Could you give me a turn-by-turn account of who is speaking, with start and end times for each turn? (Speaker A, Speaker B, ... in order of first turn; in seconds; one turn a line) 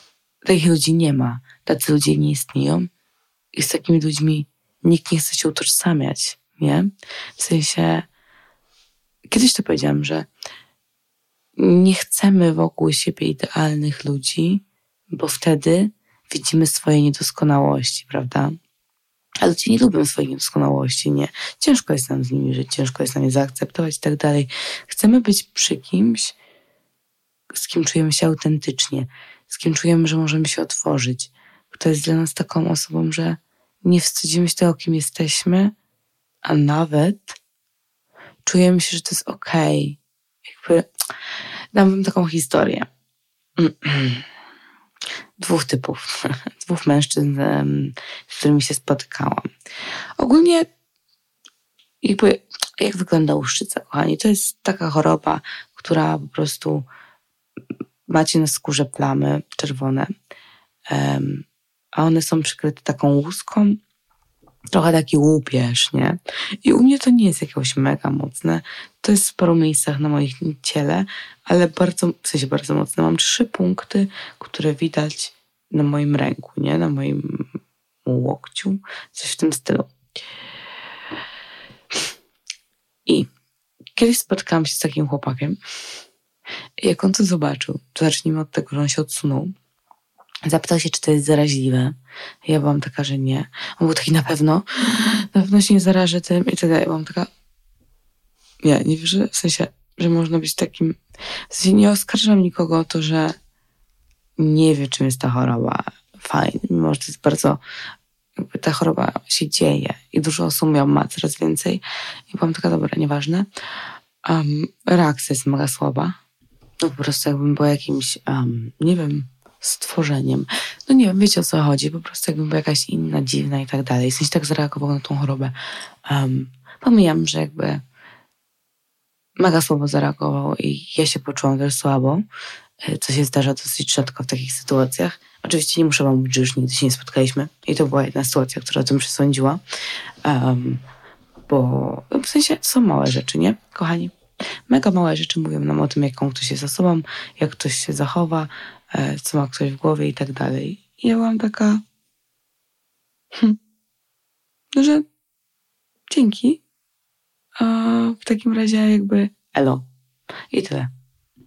Speaker A: 0.4-2.9
Speaker A: 3.5-8.1
Speaker A: 9.3-10.3
Speaker A: 11.6-18.6
Speaker A: 19.4-26.3
Speaker A: 27.5-35.7
Speaker A: 36.4-37.4
Speaker A: 38.4-40.0
Speaker A: 40.5-40.9
Speaker A: 41.7-42.9
Speaker A: 43.6-44.2
Speaker A: 45.4-46.1
Speaker A: 46.6-49.5
Speaker A: 50.2-50.7
Speaker A: 52.0-56.9
Speaker A: 58.1-60.1
Speaker A: 60.9-63.8
Speaker A: 64.7-79.9
Speaker A: 84.0-85.6
Speaker A: 86.8-89.5
Speaker A: 90.5-97.3
Speaker A: 98.6-101.0
Speaker A: 101.5-103.3
Speaker A: 104.4-107.6
Speaker A: 108.4-113.5
Speaker A: 114.2-116.2
Speaker A: 116.8-127.8
Speaker A: 129.4-132.2
Speaker A: 132.8-139.6
Speaker A: 140.2-140.8
Speaker A: 141.5-144.1
Speaker A: 144.7-151.8
Speaker A: 154.8-155.0
Speaker A: 156.1-156.6
Speaker A: 157.6-159.8
Speaker A: 160.5-160.9